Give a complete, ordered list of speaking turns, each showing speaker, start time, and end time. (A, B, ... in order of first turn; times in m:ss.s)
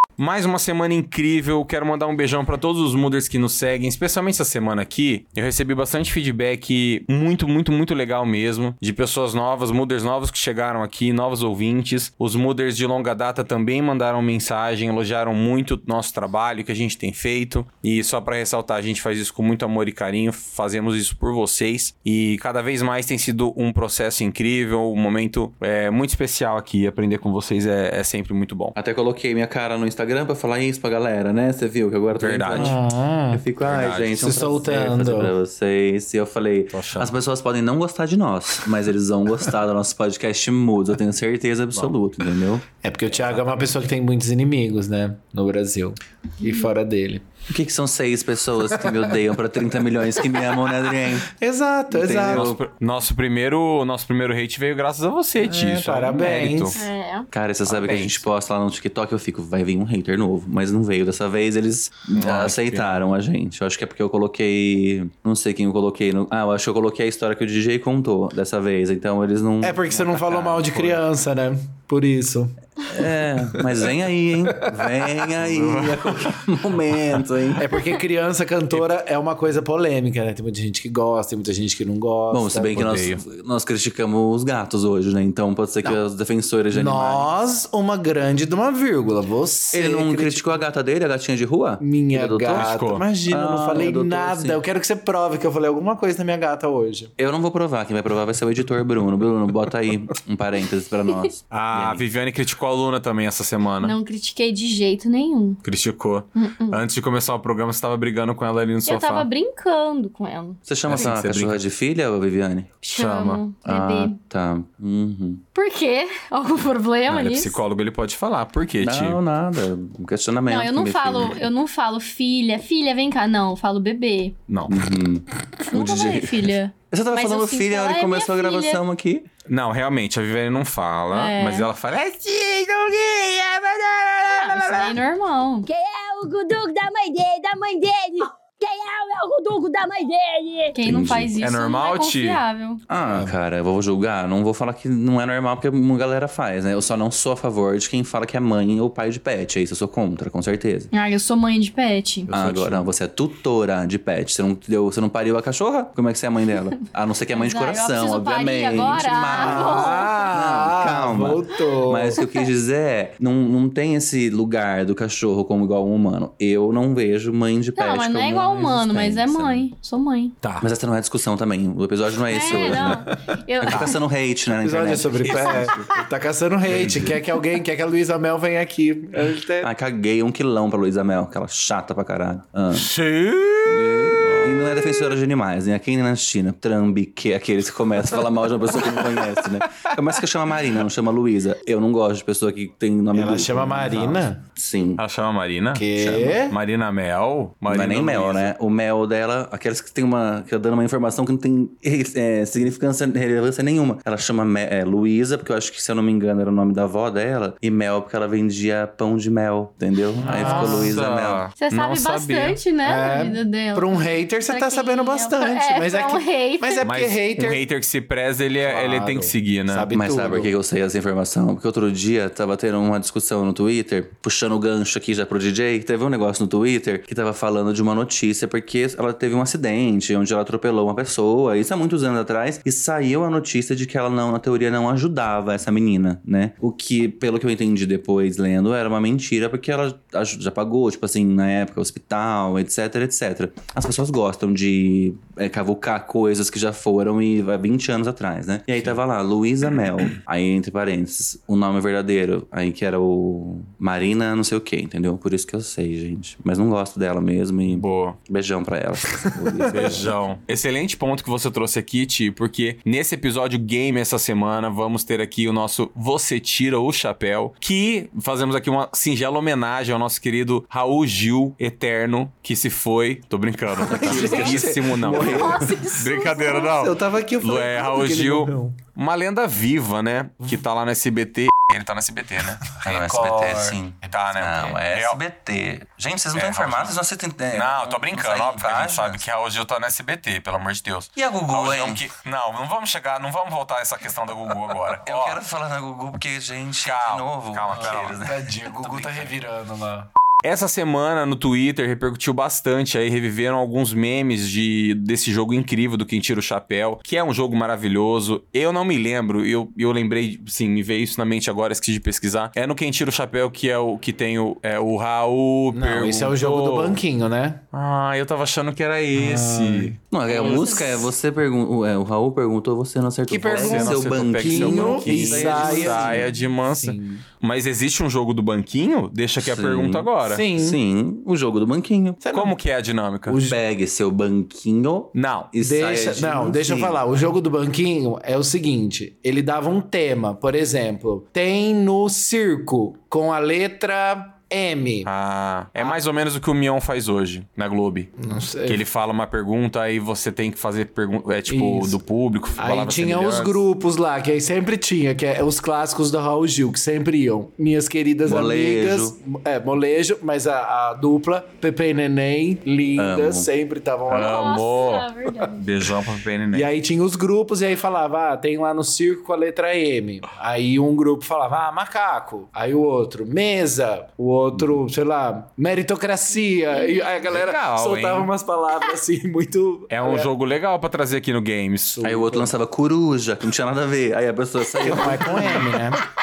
0:00.2-0:28.7 A
0:28.7-0:42.6 B
0:32.1-0:32.8 A
0:32.5-0:33.4 C
0:33.6-0:34.2 A
0:34.2-0:35.3 C
0:36.7-0:37.1 A
0:42.8-0:47.3 C
0:43.2-0:43.6 A
0:47.5-0:51.3 B
0:51.2-0:52.6 C
0:51.9-0:52.6 B
0:52.1-0:56.8 A
0:55.4-0:56.8 C
0:56.7-0:57.3 D
0:57.3-1:09.8 B
0:57.6-0:58.3 A
1:02.1-1:02.9 A
1:09.6-1:13.9 C
1:09.9-1:11.0 A
1:12.8-1:17.6 B
1:14.5-1:15.1 C
1:15.4-1:16.4 A
1:17.6-1:22.8 C
1:22.3-1:27.3 B
1:22.7-1:23.2 A
1:26.7-1:30.6 C
1:29.7-1:34.6 B
1:31.8-1:37.1 C
1:32.5-1:33.0 A
1:37.2-1:42.0 B
1:41.5-1:43.9 A
1:43.8-1:45.6 D
1:45.6-1:49.3 A
1:46.4-1:46.8 D
1:48.8-1:51.0 D
1:50.6-1:52.7 B
1:50.8-1:51.6 A
1:52.8-1:54.2 D
1:52.9-1:53.4 A
1:53.6-1:55.4 B
1:55.5-1:57.6 D
1:57.1-1:59.2 A
1:58.8-2:01.4 B
2:00.5-2:04.4 D
2:04.5-2:04.8 A
2:04.7-2:06.4 B
2:05.7-2:08.8 D
2:06.9-2:09.2 B
2:09.5-2:15.0 A
2:11.1-2:11.7 D
2:14.3-2:15.7 D
2:15.6-2:20.8 E
2:20.7-2:22.8 D
2:20.8-2:21.3 B
2:21.4-2:22.4 A
2:22.9-2:30.9 B
2:23.1-2:23.4 C
2:30.9-2:32.3 D
2:32.3-2:49.6 B
2:32.3-2:32.9 C
2:37.3-2:40.2 D
2:39.3-2:42.2 C
2:47.8-2:50.3 D
2:50.4-2:50.7 A
2:50.6-2:55.9 B
2:52.3-2:54.0 D
2:54.6-2:59.7 C
2:55.3-2:56.0 D
2:56.7-2:57.1 A
2:59.6-3:02.9 B
3:02.7-3:05.0 A
3:03.7-3:15.0 B
3:13.1-3:14.4 C
3:15.0-3:15.8 A
3:15.7-3:16.6 C
3:15.9-3:16.4 B
3:16.4-3:18.5 A
3:17.7-3:31.5 B
3:30.2-3:30.9 C
3:30.2-3:32.6 A
3:31.6-3:34.0 D
3:32.8-3:37.6 C
3:34.5-3:36.9 D
3:36.8-3:39.9 A
3:38.6-3:40.5 C
3:39.9-4:20.2 B
4:17.7-4:18.2 A
4:19.7-4:45.2 A
4:33.8-4:38.8 C
4:33.9-4:35.7 B
4:35.1-4:36.7 D
4:42.8-4:49.2 B
4:42.9-4:43.5 C
4:46.3-4:47.0 A
4:47.5-4:55.4 A
4:51.1-4:52.1 B
4:54.6-4:59.3 B
4:56.8-4:58.2 A
4:57.7-5:00.1 C
5:00.4-5:17.0 A
5:15.7-5:17.6 C
5:17.7-5:20.8 A
5:19.1-5:20.0 C
5:20.1-5:26.3 B
5:20.4-5:21.0 D
5:23.3-5:27.2 C
5:23.4-5:30.4 A
5:29.4-5:32.2 B
5:30.2-5:30.8 C
5:32.2-5:32.6 C
5:32.3-5:33.4 A
5:33.2-5:33.6 C
5:33.4-5:37.0 B
5:35.1-5:35.5 A
5:35.6-5:45.1 C
5:45.0-5:53.6 A
5:48.2-5:48.8 C
5:51.5-5:52.0 C
5:52.6-6:04.6 C
5:58.2-5:59.1 B
6:03.0-6:03.5 B
6:04.1-6:06.7 A
6:04.2-6:05.6 D
6:06.5-6:20.3 C
6:16.7-6:17.1 D
6:17.3-6:18.3 A
6:19.9-6:22.3 A
6:21.9-6:22.5 C
6:22.0-6:25.8 B
6:24.8-6:26.0 C